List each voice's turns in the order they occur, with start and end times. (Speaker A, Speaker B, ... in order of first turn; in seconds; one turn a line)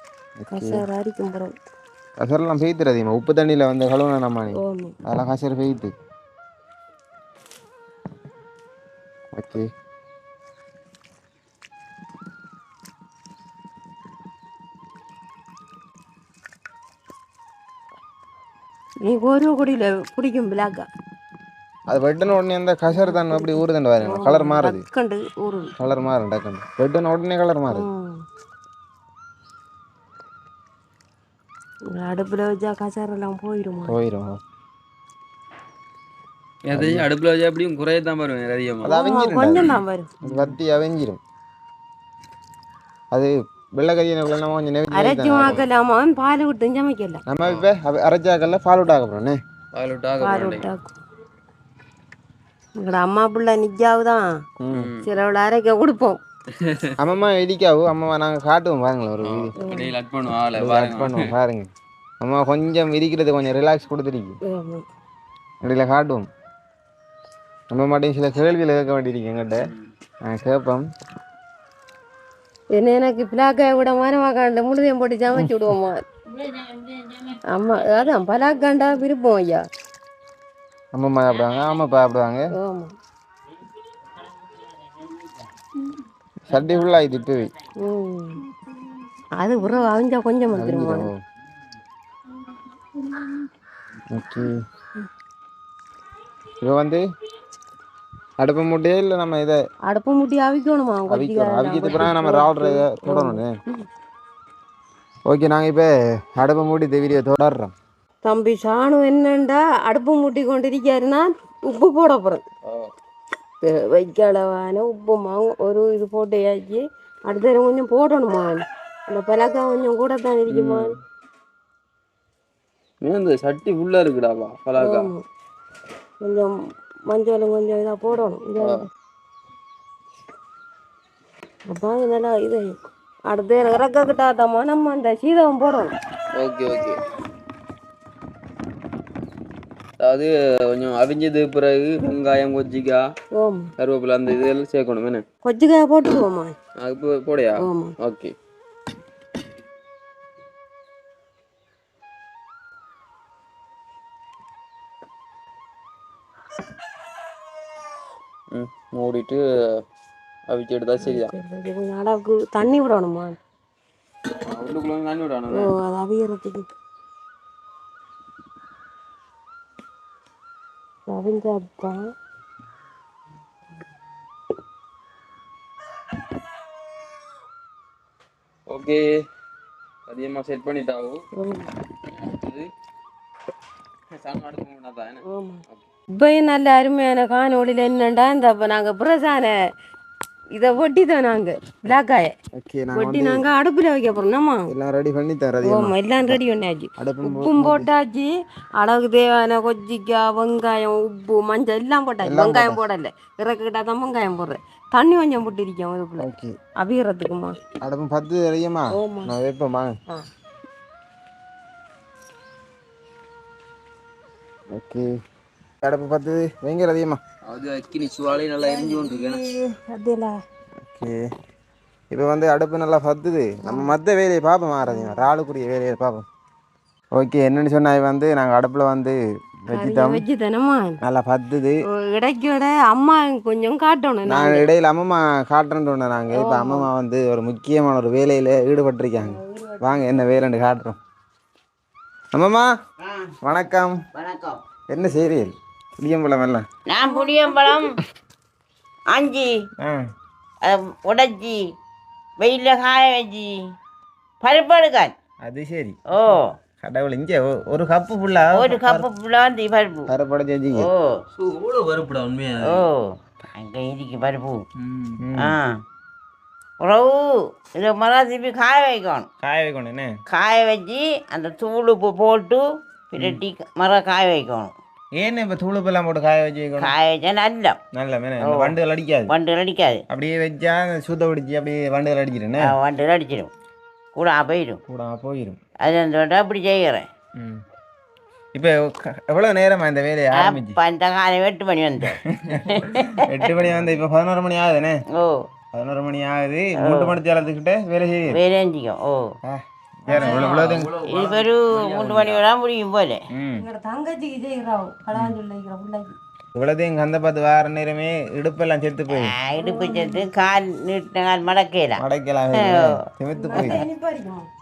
Speaker A: 0.4-0.8
Speaker B: 0.5-1.5
Speaker A: 2.2-5.9
Speaker B: 4.5-5.0
Speaker A: 9.3-9.7
Speaker B: 19.0-20.9
Speaker A: 21.9-24.8
Speaker B: 22.9-25.7
Speaker A: 25.8-27.9
Speaker B: 27.7-28.2
Speaker B: 31.9-34.0
Speaker A: 33.9-34.4
Speaker C: 36.7-38.9
Speaker A: 36.7-37.1
Speaker A: 38.8-39.7
Speaker B: 38.9-40.1
Speaker C: 40.2-40.5
Speaker A: 40.2-41.2
Speaker A: 43.1-45.6
Speaker B: 44.9-47.2
Speaker A: 47.3-49.4
Speaker C: 49.8-50.7
Speaker B: 50.2-51.0
Speaker B: 52.8-54.3
Speaker A: 54.6-54.9
Speaker C: 54.7-55.1
Speaker B: 55.0-56.2
Speaker C: 56.5-56.9
Speaker A: 57.0-59.5
Speaker C: 59.2-61.3
Speaker B: 59.6-59.9
Speaker A: 60.5-61.7
Speaker A: 62.2-64.4
Speaker B: 64.5-64.9
Speaker A: 65.6-66.3
Speaker A: 67.7-69.7
Speaker C: 69.6-69.9
Speaker A: 70.2-70.8
Speaker B: 72.8-76.0
Speaker D: 76.3-77.4
Speaker B: 77.5-79.6
Speaker A: 80.9-82.5
Speaker B: 82.5-82.9
Speaker A: 86.5-87.5
Speaker B: 87.8-88.4
Speaker B: 89.4-91.1
Speaker A: 90.5-91.2
Speaker A: 94.1-94.6
Speaker A: 96.6-97.0
Speaker A: 98.4-99.6
Speaker B: 99.9-103.8
Speaker A: 101.1-103.6
Speaker A: 105.3-107.7
Speaker B: 108.2-112.4
Speaker C: 112.7-112.9
Speaker B: 113.6-120.9
Speaker C: 120.5-120.9
Speaker C: 123.0-125.1
Speaker B: 124.8-125.2
Speaker B: 126.2-126.6
Speaker B: 127.1-128.9
Speaker B: 131.7-132.7
Speaker B: 133.3-135.9
Speaker C: 136.4-137.0
Speaker C: 140.0-143.1
Speaker B: 143.3-143.7
Speaker C: 143.8-145.2
Speaker B: 145.4-146.5
Speaker C: 146.8-148.3
Speaker B: 147.6-147.9
Speaker C: 158.5-159.8
Speaker C: 160.5-161.3
Speaker B: 161.0-163.4
Speaker C: 164.5-165.7
Speaker B: 165.5-166.7
Speaker B: 171.1-172.1
Speaker C: 178.7-179.1
Speaker C: 180.1-181.2
Speaker B: 181.4-181.7
Speaker C: 182.1-182.7
Speaker C: 184.1-185.8
Speaker B: 185.2-185.6
Speaker B: 186.1-189.6
Speaker B: 190.5-192.3
Speaker A: 192.6-193.4
Speaker B: 192.9-194.7
Speaker A: 194.7-196.4
Speaker B: 195.6-206.3
Speaker A: 197.0-197.9
Speaker A: 202.2-202.8
Speaker A: 206.2-206.5
Speaker B: 206.8-207.6
Speaker A: 207.8-209.9
Speaker B: 208.9-209.3
Speaker A: 214.7-215.1
Speaker A: 215.8-217.2
Speaker C: 217.4-219.4
Speaker B: 218.6-220.4
Speaker A: 220.9-221.3
Speaker A: 222.1-226.2
Speaker B: 223.6-223.9
Speaker B: 224.9-225.3
Speaker A: 227.1-230.2
Speaker B: 229.7-231.0
Speaker A: 231.0-231.8
Speaker B: 231.9-234.7
Speaker A: 234.2-241.0
Speaker B: 236.3-236.9
Speaker B: 239.2-240.2
Speaker A: 242.3-242.7
Speaker D: 243.0-243.3
Speaker A: 243.4-244.0
Speaker D: 244.1-244.6
Speaker A: 244.9-246.7
Speaker D: 246.9-248.0
Speaker B: 247.0-247.9
Speaker D: 249.1-249.7
Speaker A: 249.8-250.1
Speaker D: 250.6-251.7
Speaker D: 252.4-253.5
Speaker D: 254.4-255.1
Speaker A: 255.4-256.0
Speaker D: 256.1-256.6
Speaker A: 256.8-259.1
Speaker D: 258.6-260.1
Speaker A: 260.1-260.9
Speaker D: 260.7-261.2
Speaker C: 261.4-262.9
Speaker D: 262.6-264.6
Speaker C: 264.8-265.2
Speaker A: 265.2-265.6
Speaker D: 265.4-265.8
Speaker D: 266.8-269.3
Speaker A: 269.4-270.1
Speaker D: 270.3-274.7
Speaker A: 275.2-277.0
Speaker D: 276.8-277.8
Speaker A: 277.9-279.3
Speaker D: 278.4-278.7
Speaker D: 279.3-280.0
Speaker A: 280.1-282.8
Speaker D: 282.6-283.5
Speaker D: 284.1-284.8
Speaker A: 284.9-285.6
Speaker D: 285.8-287.1
Speaker A: 287.4-287.6
Speaker A: 288.6-290.8
Speaker D: 290.4-293.5
Speaker A: 292.1-295.0
Speaker D: 295.1-295.5
Speaker A: 295.7-298.4
Speaker D: 296.8-297.2
Speaker D: 298.3-299.4
Speaker A: 299.4-300.9
Speaker B: 300.1-300.6
Speaker C: 300.1-302.4
Speaker D: 300.8-303.2
Speaker A: 303.3-303.6
Speaker B: 303.6-306.1
Speaker A: 306.6-309.4
Speaker D: 309.1-312.0
Speaker B: 309.6-310.2
Speaker A: 312.0-313.9
Speaker D: 312.5-313.0
Speaker B: 313.4-314.5
Speaker D: 313.6-313.8